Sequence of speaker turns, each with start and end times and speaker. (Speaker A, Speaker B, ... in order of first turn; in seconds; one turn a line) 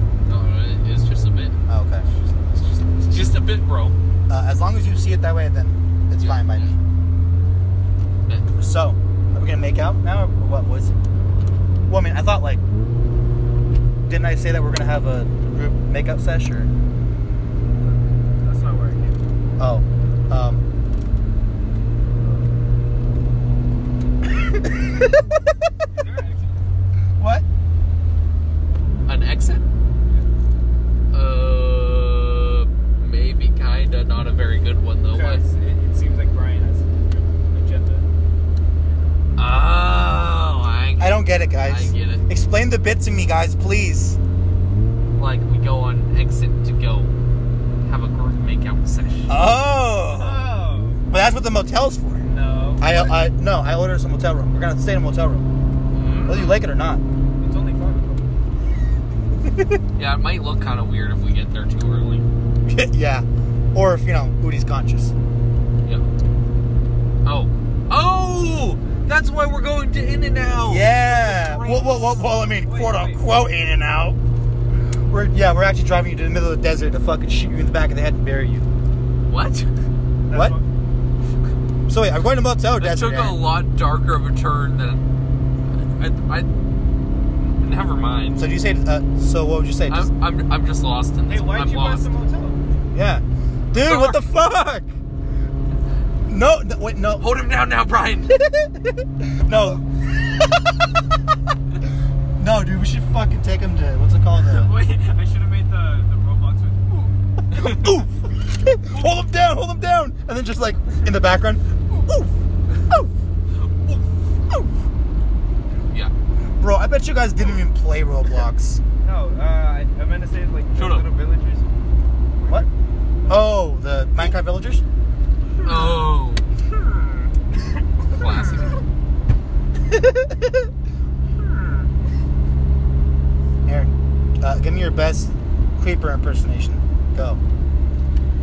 Speaker A: 0.2-3.9
Speaker B: 1.7-2.0
Speaker B: 4.3-6.7
Speaker A: 6.2-6.7
Speaker B: 8.6-10.9
Speaker B: 11.9-12.6
Speaker B: 14.1-16.7
Speaker C: 17.8-19.2
Speaker B: 19.6-20.6
Speaker C: 22.2-22.5
Speaker B: 24.5-25.1
Speaker C: 25.9-26.6
Speaker B: 27.2-27.4
Speaker A: 29.1-29.7
Speaker A: 31.1-35.4
Speaker C: 35.1-38.1
Speaker A: 39.4-42.2
Speaker B: 41.0-44.2
Speaker A: 45.2-47.1
Speaker A: 47.8-49.4
Speaker B: 49.3-50.4
Speaker C: 50.1-51.0
Speaker B: 51.1-52.2
Speaker C: 52.2-52.9
Speaker B: 52.8-55.5
Speaker A: 55.9-56.6
Speaker B: 56.3-57.0
Speaker C: 57.4-58.2
Speaker A: 60.0-62.3
Speaker B: 62.6-65.1
Speaker A: 67.2-72.2
Speaker B: 70.7-74.2
Speaker C: 71.6-73.2
Speaker B: 75.1-78.7
Speaker A: 79.3-79.7
Speaker C: 80.3-80.6
Speaker B: 80.3-80.6
Speaker B: 81.9-83.4
Speaker A: 82.8-85.0
Speaker A: 85.7-86.5
Speaker A: 87.4-88.4
Speaker B: 88.3-90.1
Speaker A: 89.9-92.1
Speaker C: 91.3-92.6
Speaker B: 92.9-94.9
Speaker A: 93.7-94.3
Speaker B: 96.3-97.4
Speaker A: 97.2-98.3
Speaker B: 98.3-99.8
Speaker B: 102.4-104.7
Speaker C: 104.4-107.1
Speaker A: 107.5-107.9
Speaker B: 107.5-113.1
Speaker B: 113.9-114.7
Speaker B: 116.6-118.8
Speaker C: 119.0-121.6
Speaker A: 120.8-121.0
Speaker C: 122.4-122.7
Speaker B: 123.3-124.8
Speaker A: 125.6-126.5
Speaker A: 128.1-128.8
Speaker B: 133.7-137.4